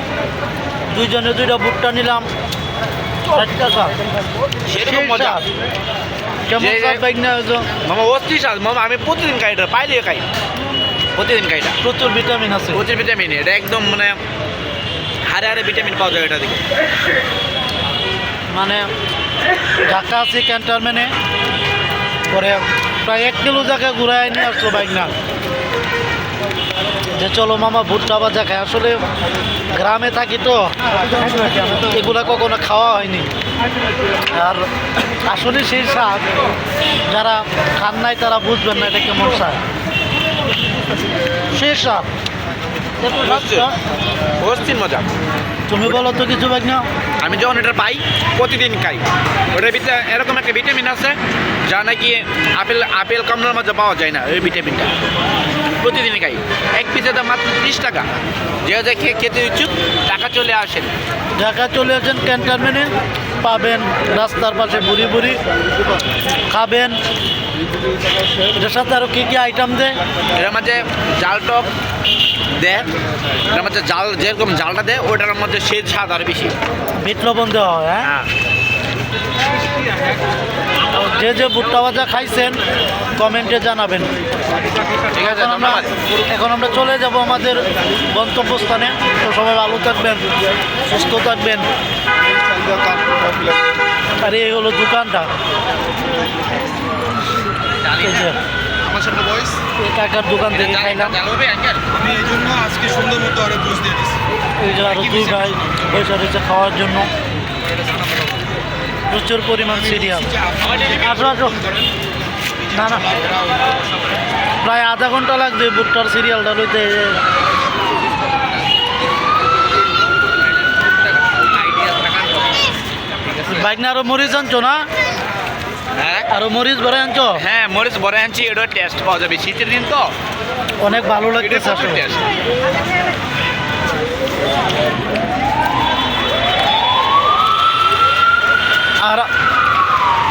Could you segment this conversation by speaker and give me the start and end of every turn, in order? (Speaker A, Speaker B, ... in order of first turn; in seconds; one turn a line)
Speaker A: 0.9-2.2
Speaker A: 3.3-4.0
Speaker B: 4.7-5.4
Speaker A: 4.8-5.4
Speaker A: 6.5-7.7
Speaker B: 6.6-7.0
Speaker B: 7.8-10.2
Speaker B: 11.1-11.8
Speaker A: 11.8-12.8
Speaker B: 12.7-14.2
Speaker B: 15.2-16.6
Speaker A: 18.5-18.9
Speaker A: 19.8-21.1
Speaker A: 22.3-25.1
Speaker A: 27.1-29.0
Speaker A: 29.7-30.7
Speaker A: 31.6-33.3
Speaker A: 34.3-34.6
Speaker A: 35.2-36.3
Speaker A: 37.1-39.6
Speaker A: 41.5-42.1
Speaker A: 43.0-43.8
Speaker B: 43.1-43.7
Speaker B: 44.4-45.0
Speaker A: 45.7-46.9
Speaker B: 47.2-54.9
Speaker B: 55.8-58.1
Speaker B: 58.6-60.9
Speaker A: 61.4-65.4
Speaker A: 66.5-67.0
Speaker A: 68.6-70.0
Speaker B: 70.3-71.7
Speaker B: 72.6-72.9
Speaker B: 73.5-76.5
Speaker A: 77.0-78.1
Speaker B: 78.0-78.3
Speaker A: 80.9-82.6
Speaker A: 83.2-84.1
Speaker B: 85.1-85.9
Speaker A: 85.2-90.3
Speaker A: 90.9-91.7
Speaker A: 94.2-95.3
Speaker B: 97.8-98.3
Speaker A: 98.0-98.4
Speaker B: 98.9-99.5
Speaker A: 99.8-101.2
Speaker B: 100.5-101.9
Speaker C: 102.0-104.2
Speaker A: 104.6-107.1
Speaker B: 105.1-105.5
Speaker A: 109.1-110.4
Speaker B: 110.6-111.1
Speaker A: 110.9-111.6
Speaker A: 112.7-113.1
Speaker C: 113.2-113.5
Speaker A: 114.6-117.2
Speaker B: 121.4-122.5
Speaker B: 123.3-123.7
Speaker A: 123.5-124.8
Speaker B: 125.9-126.3
Speaker A: 126.3-127.4
Speaker B: 127.3-130.1
Speaker A: 130.8-132.0
Speaker B: 131.4-132.2
Speaker A: 139.0-139.3